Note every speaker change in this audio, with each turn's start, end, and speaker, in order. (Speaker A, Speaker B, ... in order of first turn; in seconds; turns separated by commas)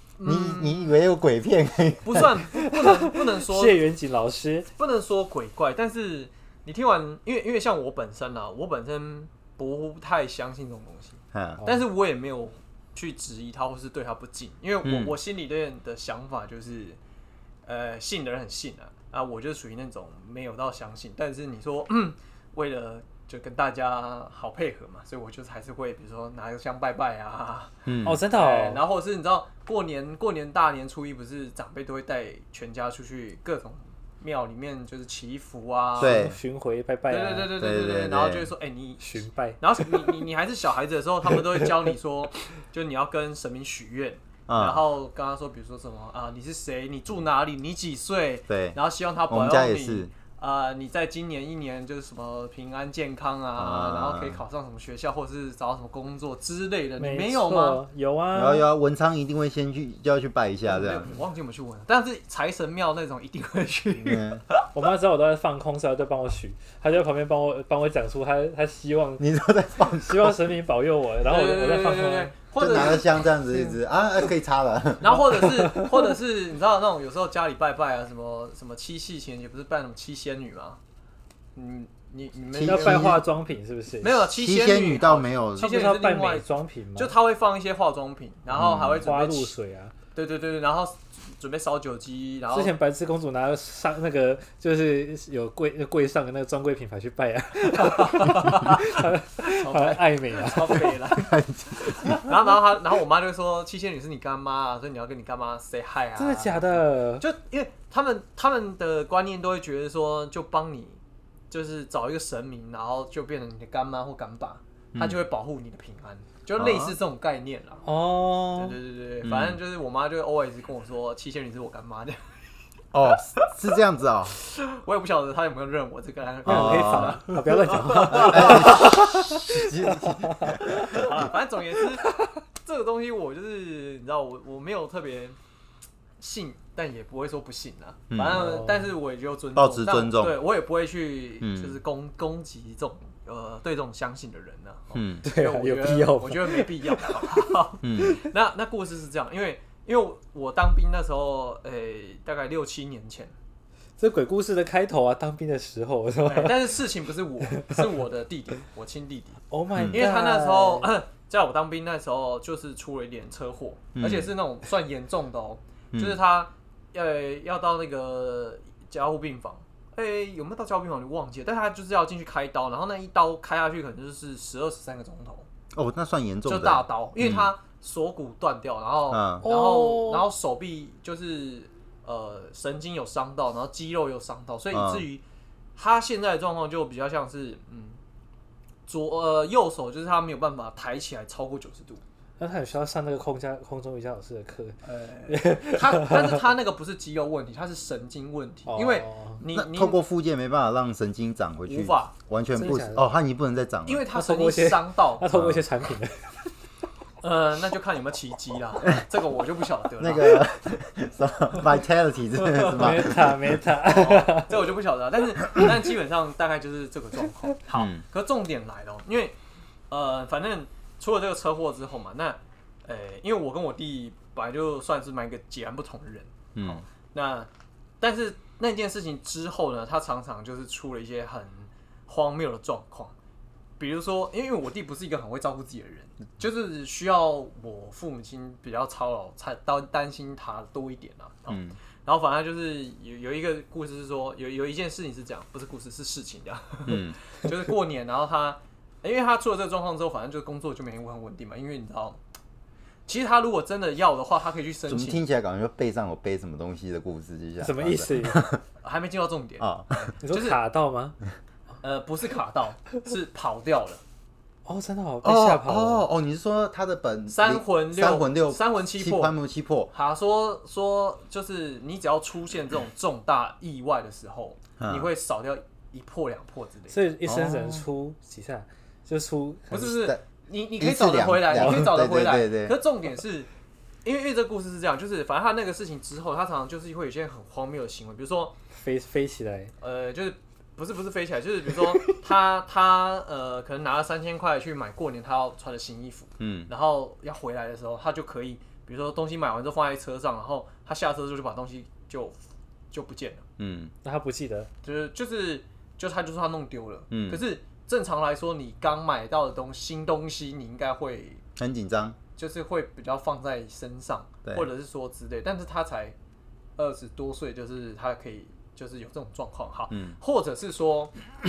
Speaker A: 0.2-0.9, Speaker B: 0.2-2.3, Speaker A: 2.0-3.8, Speaker C: 2.5-4.7, Speaker A: 4.8-17.0, Speaker B: 11.3-11.6, Speaker C: 11.6-11.8, Speaker B: 14.8-15.2, Speaker A: 17.7-27.7, Speaker B: 27.9-28.2, Speaker C: 28.1-28.8, Speaker A: 28.3-36.3, Speaker C: 36.0-37.6, Speaker B: 36.0-36.4, Speaker A: 37.1-57.8, Speaker B: 37.6-38.5, Speaker C: 39.0-40.2, Speaker C: 41.3-41.7, Speaker B: 44.5-44.8, Speaker B: 48.5-48.8, Speaker B: 49.3-50.1, Speaker B: 53.6-54.4, Speaker C: 57.0-58.7, Speaker B: 58.3-61.1, Speaker A: 60.7-64.6, Speaker B: 64.0-64.4, Speaker C: 64.7-69.3, Speaker B: 69.2-70.5, Speaker C: 69.8-72.3, Speaker A: 71.2-73.6, Speaker B: 72.6-75.2, Speaker A: 75.0-80.8, Speaker C: 75.2-76.1, Speaker A: 81.5-83.2, Speaker B: 82.5-83.2, Speaker C: 82.6-84.2, Speaker A: 84.0-89.5, Speaker B: 84.3-85.7, Speaker C: 85.6-87.2, Speaker B: 88.5-89.1, Speaker C: 89.0-89.9, Speaker A: 90.1-92.7, Speaker C: 92.5-101.0, Speaker A: 97.7-117.8, Speaker B: 101.2-102.2, Speaker C: 106.2-107.2, Speaker B: 114.9-115.2, Speaker B: 116.6-117.0, Speaker C: 117.8-118.8, Speaker A: 118.5-122.2, Speaker B: 119.2-119.6, Speaker B: 122.9-124.4, Speaker A: 124.3-129.4, Speaker C: 126.5-131.0, Speaker B: 126.5-127.2, Speaker B: 128.1-131.2, Speaker A: 130.6-135.4, Speaker A: 136.2-153.3, Speaker B: 138.1-138.4, Speaker C: 138.3-138.9, Speaker B: 139.6-140.4, Speaker B: 141.4-141.8, Speaker B: 144.9-145.2, Speaker C: 145.2-147.5, Speaker B: 147.8-148.2, Speaker C: 154.0-156.8, Speaker A: 156.2-175.5, Speaker C: 157.5-157.8, Speaker C: 159.5-160.9, Speaker B: 159.7-160.1, Speaker B: 164.0-164.3, Speaker B: 165.9-166.2, Speaker B: 175.7-177.5, Speaker A: 176.5-185.2, Speaker B: 179.1-179.4, Speaker C: 179.4-180.3, Speaker B: 184.7-185.1, Speaker A: 185.8-188.0, Speaker A: 188.9-192.0, Speaker C: 192.4-196.5, Speaker A: 194.8-200.0, Speaker C: 198.7-199.4, Speaker B: 199.5-204.1, Speaker A: 201.7-202.2, Speaker C: 202.6-203.1, Speaker A: 203.9-205.3, Speaker C: 204.1-206.3, Speaker B: 205.3-205.6, Speaker A: 207.2-210.5, Speaker B: 210.0-213.6, Speaker A: 212.4-212.8, Speaker C: 212.7-214.6, Speaker A: 213.8-219.4, Speaker B: 217.8-218.0, Speaker A: 219.9-227.5, Speaker B: 226.6-226.8, Speaker A: 228.0-233.1, Speaker A: 233.8-252.2, Speaker B: 241.5-241.8, Speaker B: 246.9-247.2, Speaker A: 253.1-255.2, Speaker B: 254.9-258.6, Speaker C: 257.6-258.5, Speaker A: 258.8-260.6, Speaker B: 259.6-260.1, Speaker C: 260.2-261.2, Speaker A: 261.8-264.0, Speaker C: 264.6-266.1, Speaker B: 265.2-269.9, Speaker A: 267.3-269.4, Speaker A: 269.9-277.0, Speaker B: 274.8-275.1, Speaker C: 276.9-279.9, Speaker B: 277.3-277.9, Speaker A: 279.7-283.5, Speaker B: 279.7-280.2, Speaker B: 280.8-282.8, Speaker C: 281.6-281.8, Speaker A: 284.1-288.6, Speaker C: 288.7-289.7, Speaker A: 289.8-302.4, Speaker B: 296.4-296.7, Speaker A: 302.9-303.4, Speaker B: 303.6-303.9, Speaker C: 304.0-304.7, Speaker A: 304.8-311.4, Speaker B: 307.1-307.4, Speaker B: 311.6-312.2, Speaker A: 312.4-316.1, Speaker A: 316.8-321.1, Speaker B: 319.9-320.2